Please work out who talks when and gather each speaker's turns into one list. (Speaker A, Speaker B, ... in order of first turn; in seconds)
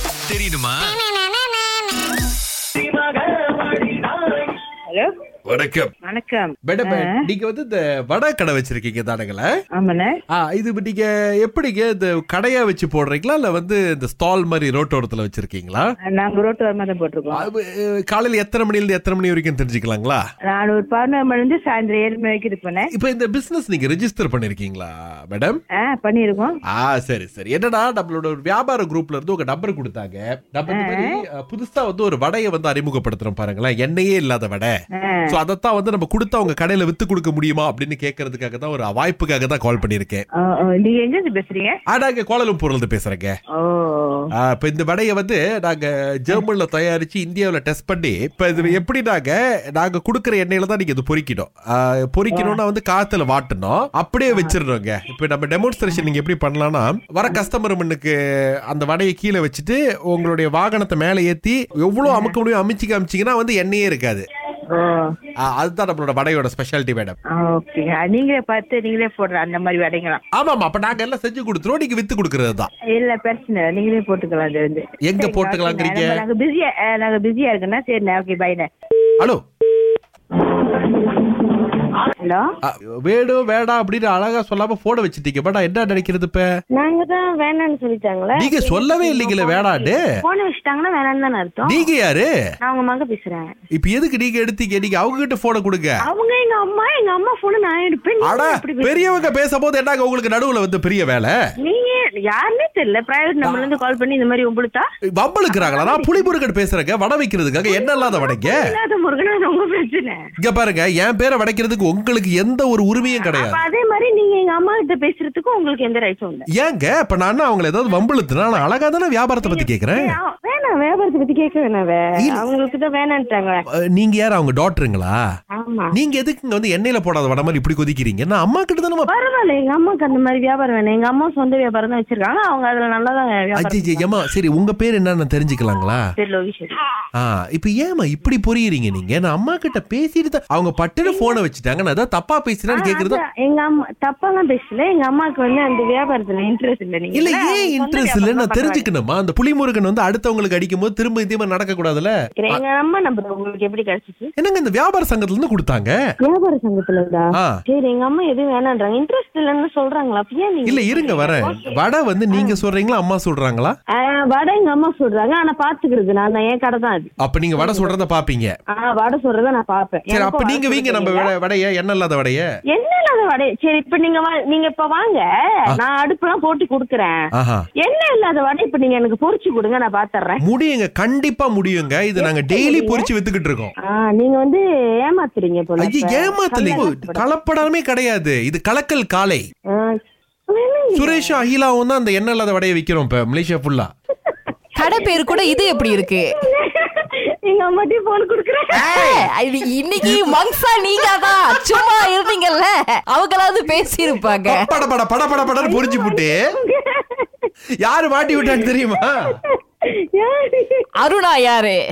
Speaker A: 0.3-0.8, 5.5-5.9, 6.7-9.5, 10.3-15.9, 17.3-20.2, 22.9-25.6, 26.7-34.7, 35.3-40.2, 41.9-43.3, 44.4-58.1, 58.7-64.2, 65.5-67.2, 70.3-72.7, 75.0-76.2, 82.6-86.5, 88.3-90.0, 91.7-92.3, 93.7-96.0, 98.2-101.3, 103.4-103.9, 105.2-108.6, 110.4-113.6, 116.5-120.2, 123.9-125.2, 125.9-129.1, 133.6-136.0, 137.2-143.2, 147.1-152.6, 154.4-155.9, 160.7-163.7, 167.2-168.5, 170.1-172.4, 177.4-177.6, 180.4-183.7, 185.8-189.4, 190.9-193.9, 198.7-199.3, 200.0-200.4, 204.4-206.4, 207.8-209.3
Speaker B: 2.9-3.2, 6.0-7.0, 9.8-10.1, 16.1-17.4, 20.5-22.9, 25.8-26.5, 30.8-31.1, 40.4-41.8, 43.6-44.2, 67.3-70.2, 72.9-78.7
Speaker C: 86.7-91.9, 92.6-93.5, 96.0-99.2, 101.6-104.8, 105.5-106.3, 107.7-110.2, 113.2-116.5, 119.4-123.6, 125.5-125.9, 129.1-134.1, 136.2-136.8, 141.0-141.4, 142.7-148.9, 152.4-154.3, 156.2-161.8, 162.3-162.6, 163.9-167.9, 168.7-171.3, 172.7-177.2, 177.8-180.4, 182.2-183.1, 183.8-187.4, 190.5-191.4, 194.3-198.9, 205.4-207.3, 208.3-210.9
Speaker D: 194.8-196.3, 198.9-204.7, 211.0-211.8